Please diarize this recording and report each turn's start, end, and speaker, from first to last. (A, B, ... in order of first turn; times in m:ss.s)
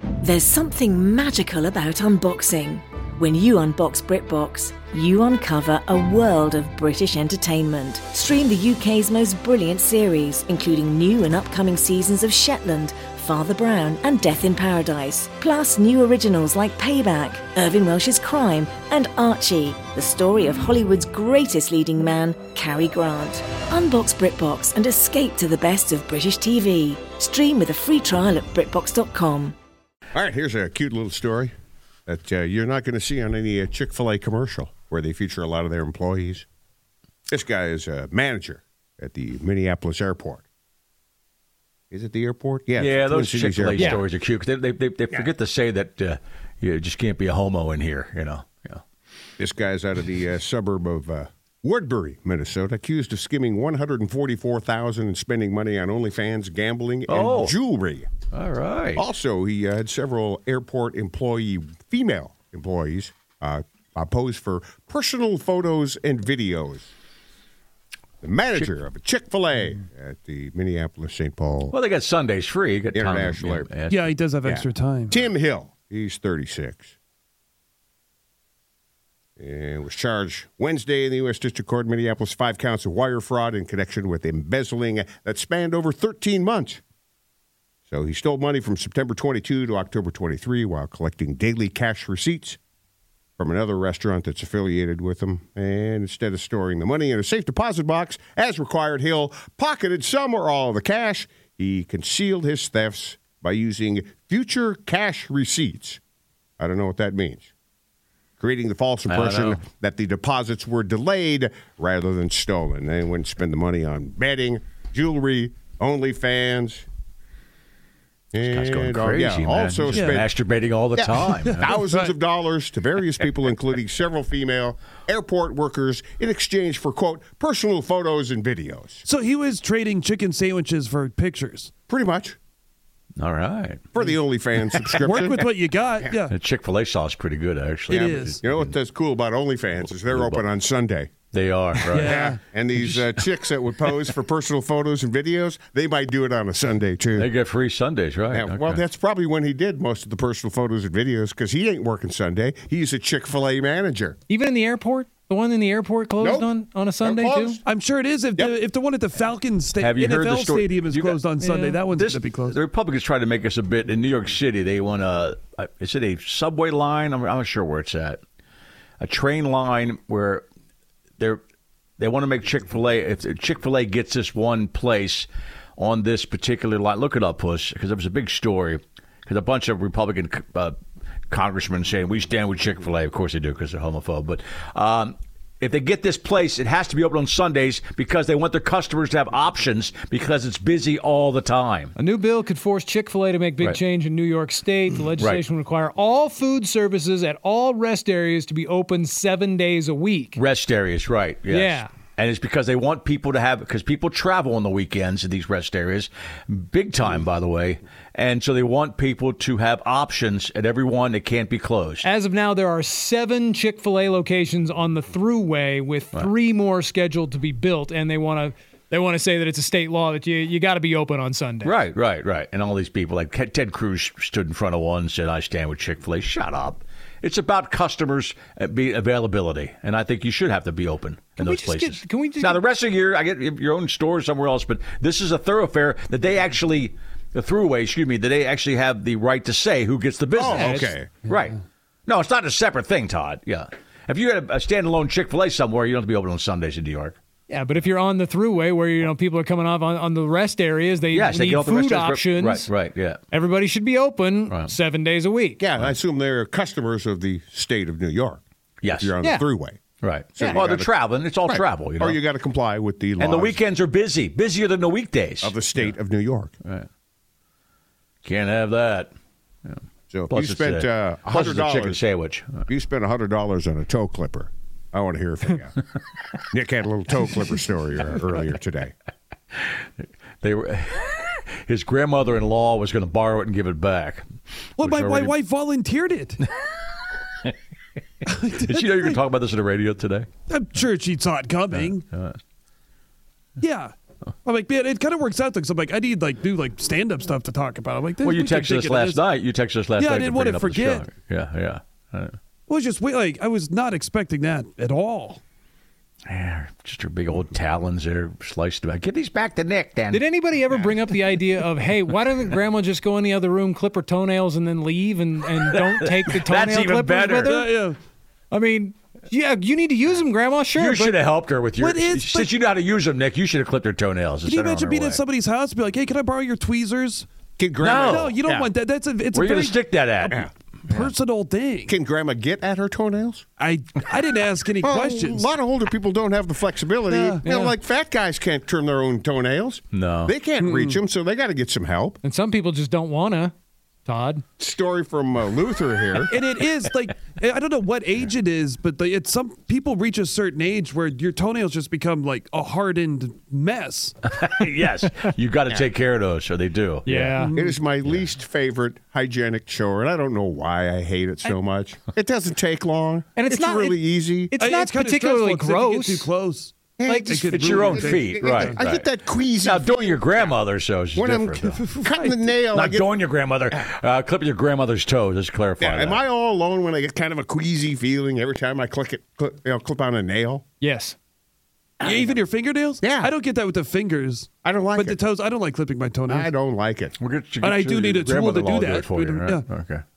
0:00.2-0:29.6 A
0:30.1-0:31.5 B
0:32.1-0:36.5 B
0:37.3-0:40.4 B
0:41.9-0:44.0 B
0:42.8-0:48.8 C
0:43.8-0:44.0 D
0:49.4-0:58.1 B
0:57.1-0:57.6 C
0:58.3-0:59.0 C
0:59.0-1:06.9 B
1:08.2-1:11.8 B
1:11.7-1:14.1 C
1:12.9-1:13.7 B
1:13.9-1:15.2 E
1:14.4-1:17.0 B
1:19.4-1:26.8 B
1:27.9-1:32.6 B
1:33.4-1:46.0 B
1:46.6-1:47.5 B
1:48.4-1:56.9 B
1:49.1-1:49.6 C
1:58.3-2:00.3 B
1:58.4-2:01.8 C
1:59.9-2:00.2 E
2:01.0-2:09.0 B
2:01.5-2:02.1 E
2:09.0-2:11.7 E
2:11.9-2:12.4 B
2:13.2-2:13.9 C
2:13.9-2:16.1 B
2:15.0-2:16.3 E
2:16.3-2:18.7 C
2:17.9-2:18.4 E
2:18.4-2:21.1 B
2:20.1-2:20.4 C
2:21.3-2:22.3 C
2:21.9-2:23.0 E
2:22.0-2:27.3 B
2:27.2-2:28.8 C
2:28.3-2:34.2 B
2:34.3-2:37.6 D
2:36.2-2:37.6 B
2:37.6-2:42.6 E
2:39.8-2:41.2 C
2:41.4-2:41.8 D
2:41.9-2:48.2 C
2:49.0-2:50.4 C
2:52.0-3:00.7 C
3:01.3-3:12.0 C
3:12.0-3:20.4 D
3:15.2-3:15.4 C
3:20.4-3:32.1 C
3:21.5-3:21.9 D
3:32.0-3:41.8 D
3:41.6-4:07.2 C
3:51.4-3:52.6 D
4:00.4-4:01.2 B
4:00.5-4:00.9 D
4:07.5-4:12.7 D
4:11.1-4:13.2 C
4:13.3-4:15.6 D
4:15.6-4:19.8 B
4:18.8-4:19.2 C
4:20.0-4:22.2 C
4:20.4-4:23.6 B
4:23.2-4:26.0 C
4:25.4-4:26.5 B
4:28.2-4:29.1 C
4:30.1-4:32.0 B
4:30.3-4:32.6 C
4:32.7-4:35.7 B
4:36.5-4:38.9 B
4:40.4-4:44.3 C
4:44.8-4:45.4 C
4:44.8-4:46.4 E
4:48.3-4:49.2 E
4:48.4-4:50.3 C
4:50.5-4:52.0 E
4:51.7-4:52.4 C
4:53.6-4:53.9 E
4:54.4-4:59.2 E
4:58.2-5:02.4 C
5:00.0-5:01.1 E
5:02.7-5:05.4 E
5:06.3-5:11.1 C
5:10.1-5:17.7 D
5:15.7-5:17.6 C
5:17.4-5:18.0 E
5:18.5-5:21.2 D
5:20.8-5:25.2 C
5:21.8-5:22.5 E
5:24.5-5:27.3 E
5:27.6-5:28.7 B
5:27.8-5:28.4 C
5:28.0-5:31.9 E
5:29.3-5:31.0 C
5:31.9-5:33.4 B
5:33.6-5:35.5 E
5:34.8-5:42.2 B
5:37.1-5:37.5 E
5:37.4-5:37.7 D
5:39.9-5:40.4 C
5:40.6-5:41.0 E
5:42.2-5:43.5 D
5:44.0-5:44.4 D
5:44.6-5:46.3 B
5:46.2-5:54.2 E
5:54.3-5:57.3 C
5:57.1-5:57.5 D
5:57.4-5:57.8 E
5:57.5-6:04.5 B
6:03.4-6:06.3 D
6:04.6-6:08.8 E
6:07.0-6:10.4 B
6:07.1-6:07.4 D
6:07.5-6:11.8 C
6:11.2-6:13.1 B
6:11.7-6:12.4 E
6:12.7-6:16.2 C
6:15.8-6:20.6 B
6:20.8-6:21.2 D
6:22.0-6:26.5 E
6:23.0-6:23.3 B
6:24.6-6:25.2 B
6:26.3-6:27.2 B
6:27.2-6:30.0 C
6:27.6-6:29.7 E